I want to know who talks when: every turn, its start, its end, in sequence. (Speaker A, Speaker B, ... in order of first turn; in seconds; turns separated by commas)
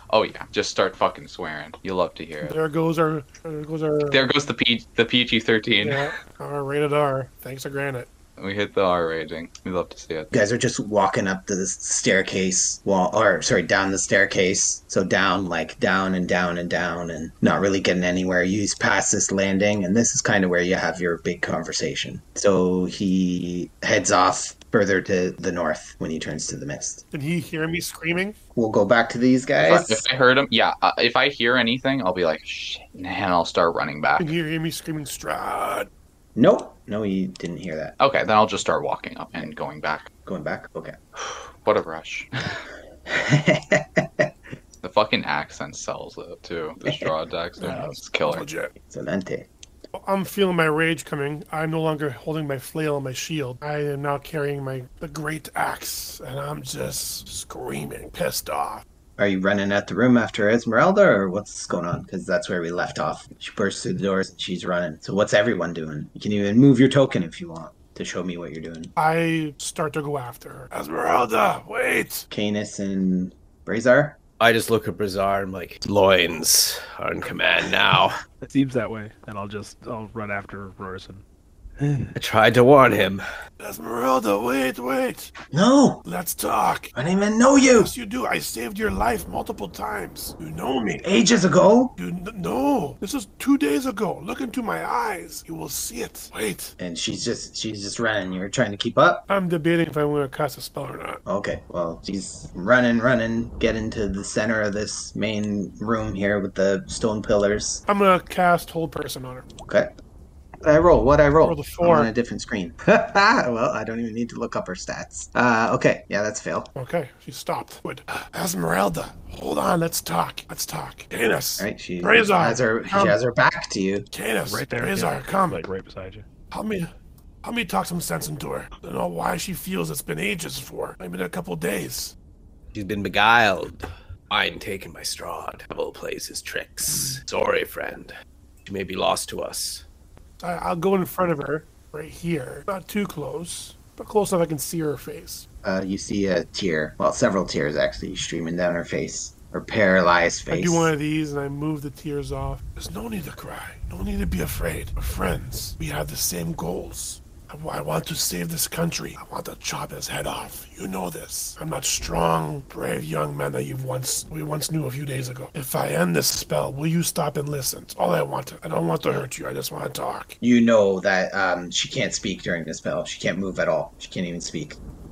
Speaker A: 0.1-2.5, Speaker B: 2.4-4.2, Speaker A: 4.1-6.1, Speaker B: 5.8-8.1, Speaker A: 8.4-10.3, Speaker C: 10.3-27.0, Speaker B: 27.1-28.4, Speaker C: 28.5-30.0, Speaker A: 29.7-34.3, Speaker B: 34.2-35.9, Speaker C: 36.4-37.9, Speaker A: 38.0-40.1, Speaker C: 40.2-41.0, Speaker A: 41.2-42.6, Speaker C: 43.0-44.3, Speaker A: 44.8-48.5, Speaker C: 46.9-47.1, Speaker B: 47.6-48.7, Speaker C: 48.8-49.5, Speaker B: 49.9-58.8, Speaker C: 59.2-68.9, Speaker B: 69.0-72.3, Speaker C: 72.3-74.2, Speaker D: 74.4-78.2, Speaker E: 78.5-81.2, Speaker D: 81.8-83.2, Speaker B: 83.6-85.3, Speaker C: 85.5-86.0, Speaker B: 86.0-86.9, Speaker C: 86.9-87.9, Speaker B: 87.7-91.1, Speaker C: 91.0-91.9, Speaker B: 92.0-96.7, Speaker C: 96.8-99.2, Speaker B: 99.3-101.2, Speaker C: 101.2-107.8, Speaker B: 107.9-109.5, Speaker C: 109.6-109.9, Speaker C: 110.6-116.7, Speaker B: 111.4-112.1, Speaker B: 116.7-123.2, Speaker C: 121.6-124.1, Speaker B: 124.1-125.7, Speaker E: 124.5-126.3, Speaker B: 126.5-126.9, Speaker B: 127.4-132.1, Speaker D: 132.7-138.1, Speaker D: 138.6-139.8, Speaker B: 140.4-145.4, Speaker C: 145.6-150.9, Speaker B: 150.5-170.3, Speaker C: 170.4-174.8